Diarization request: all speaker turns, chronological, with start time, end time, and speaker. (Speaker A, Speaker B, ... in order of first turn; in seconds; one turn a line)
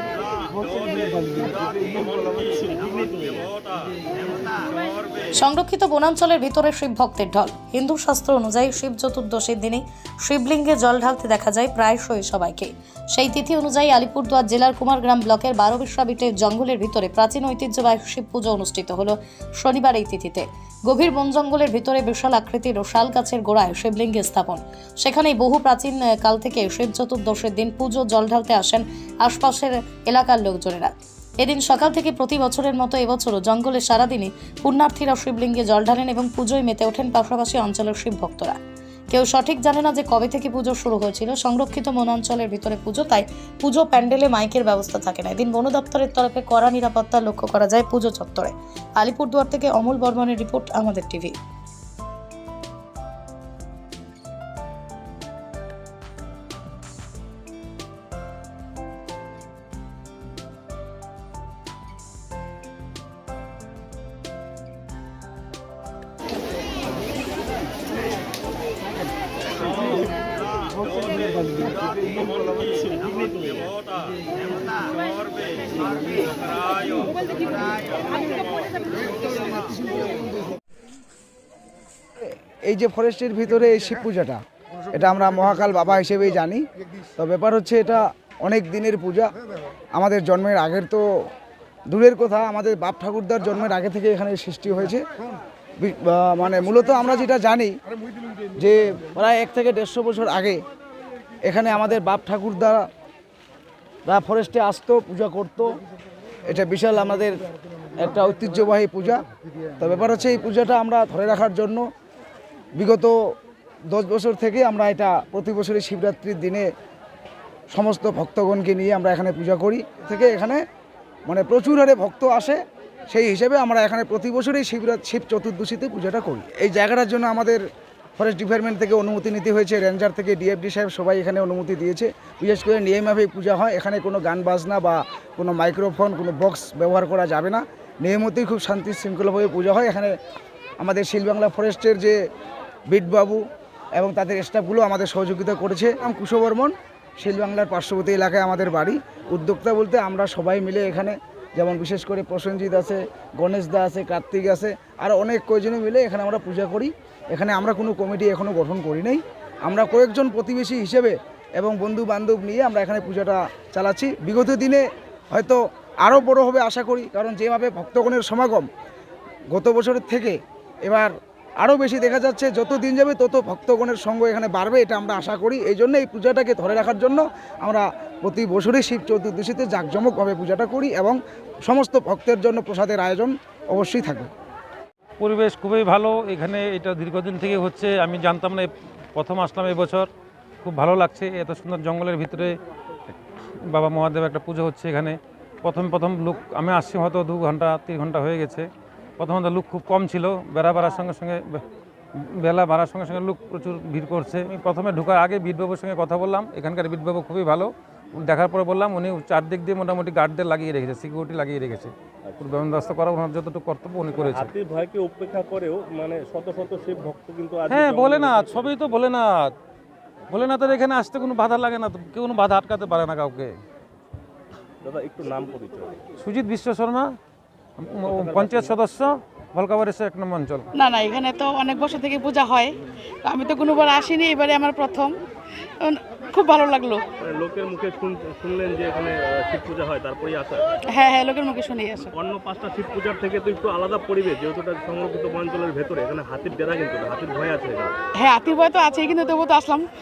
Speaker A: 0.5-3.8
Speaker B: 5.3-38.6
Speaker B: 39.1-51.3
Speaker A: 70.8-73.9
Speaker A: 76.7-77.2
Speaker C: 82.2-84.4
Speaker C: 84.9-86.6
Speaker C: 87.2-89.3
Speaker C: 90.0-91.2
Speaker C: 91.9-95.0
Speaker C: 95.8-97.7
Speaker C: 98.6-100.6
Speaker C: 101.5-102.9
Speaker C: 104.1-105.8
Speaker C: 106.5-107.4
Speaker C: 108.0-109.2
Speaker C: 109.8-111.9
Speaker C: 112.8-113.3
Speaker C: 113.9-116.7
Speaker C: 117.7-120.6
Speaker C: 121.2-127.6
Speaker C: 128.2-140.1
Speaker C: 140.8-142.2
Speaker C: 142.9-143.4
Speaker C: 144.0-168.7
Speaker C: 169.5-184.3
Speaker D: 185.2-190.1
Speaker D: 190.6-192.6
Speaker D: 193.7-198.7
Speaker D: 199.2-201.6
Speaker D: 202.2-214.5
Speaker A: 214.2-218.8
Speaker D: 217.7-219.5
Speaker D: 220.3-223.5
Speaker A: 224.8-226.0
Speaker D: 226.2-227.1
Speaker D: 227.8-230.7
Speaker A: 228.1-228.8
Speaker E: 230.8-232.7
Speaker E: 233.2-235.1
Speaker E: 235.8-237.0
Speaker A: 237.2-240.7
Speaker E: 240.9-242.0
Speaker A: 242.1-248.0
Speaker E: 248.2-249.8